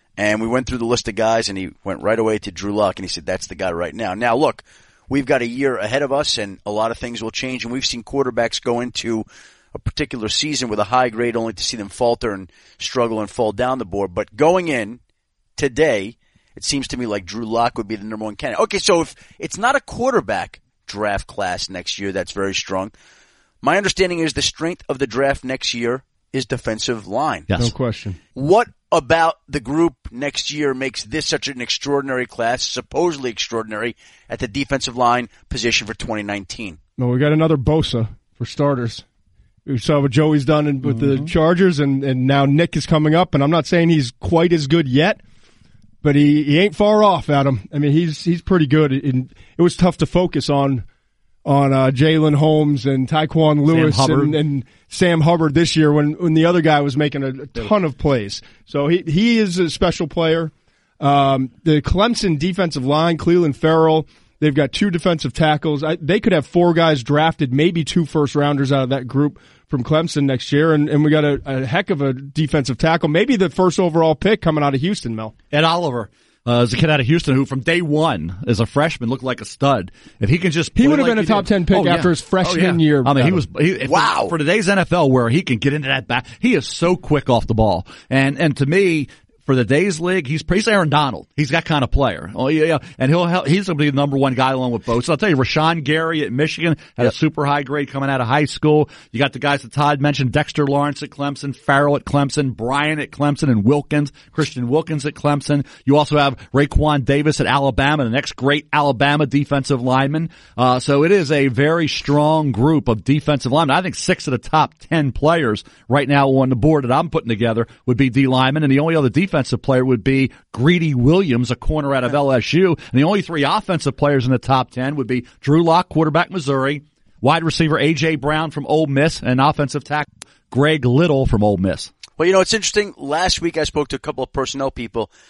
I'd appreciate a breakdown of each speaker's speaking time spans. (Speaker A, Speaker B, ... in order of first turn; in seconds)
Speaker A: 0.2-15.0, 15.6-22.9, 23.6-27.5, 28.4-36.8, 83.8-84.3, 132.2-135.1
Speaker B: 27.6-28.2, 37.0-39.0, 39.6-45.2, 46.0-50.9, 51.4-75.3, 80.7-83.5
Speaker C: 40.9-41.3, 53.7-54.4, 75.5-131.9